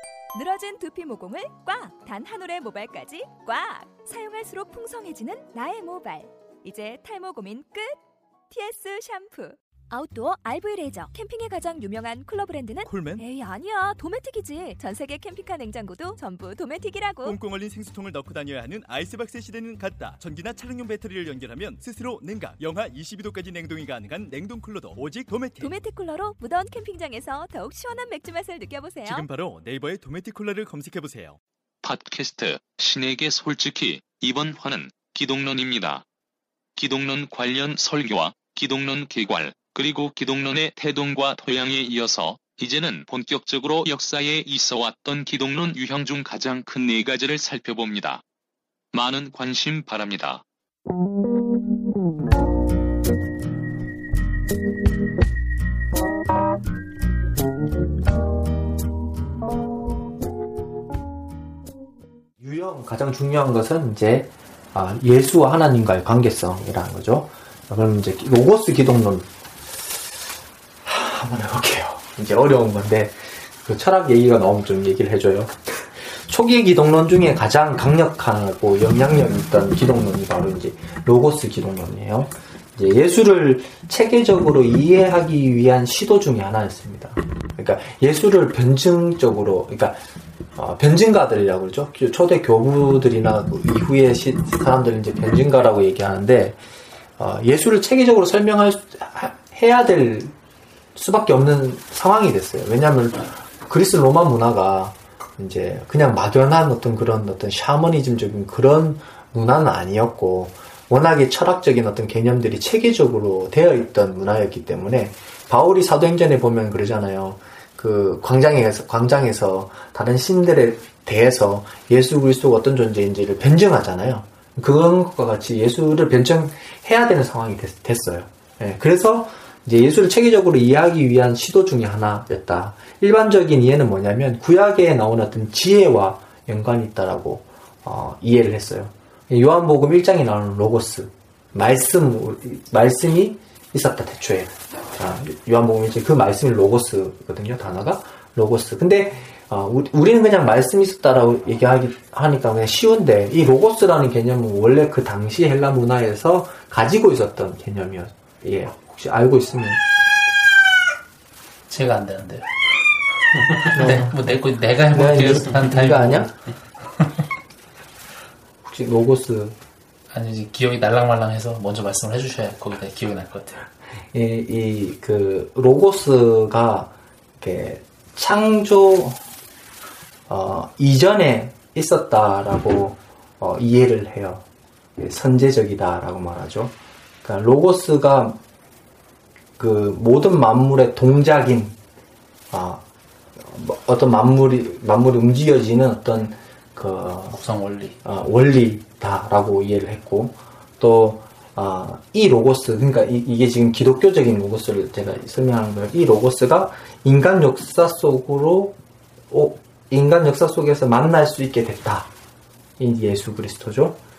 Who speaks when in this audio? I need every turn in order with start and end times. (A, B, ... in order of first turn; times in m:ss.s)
0:00.3-0:08.0 A
0:08.5-0:17.4 A
0:12.8-0:13.2 B
0:17.2-0:25.8 B
0:25.6-0:29.3 A
0:29.0-0:31.4 B
0:31.8-0:36.0 C
0:36.8-0:48.2 C
0:48.9-0:50.4 C
1:02.4-1:09.3 D
1:10.8-1:30.0 D
1:30.6-1:36.6 D
1:37.2-1:40.3 D
1:40.9-2:39.8 D
2:41.7-2:42.4 E
2:43.4-2:47.1 E
2:43.6-2:44.2 D
2:44.9-2:46.3 D
2:48.6-2:49.5 D
2:50.1-2:53.6 E
2:54.1-2:59.2 D
3:00.3-3:04.4 D
3:05.0-3:08.4 D
3:09.6-3:11.8 D
3:12.5-3:12.8 D
3:13.4-3:17.4 D
3:17.3-3:17.9 E
3:18.0-3:28.8 D
3:29.3-3:32.1 D
3:32.8-3:34.0 D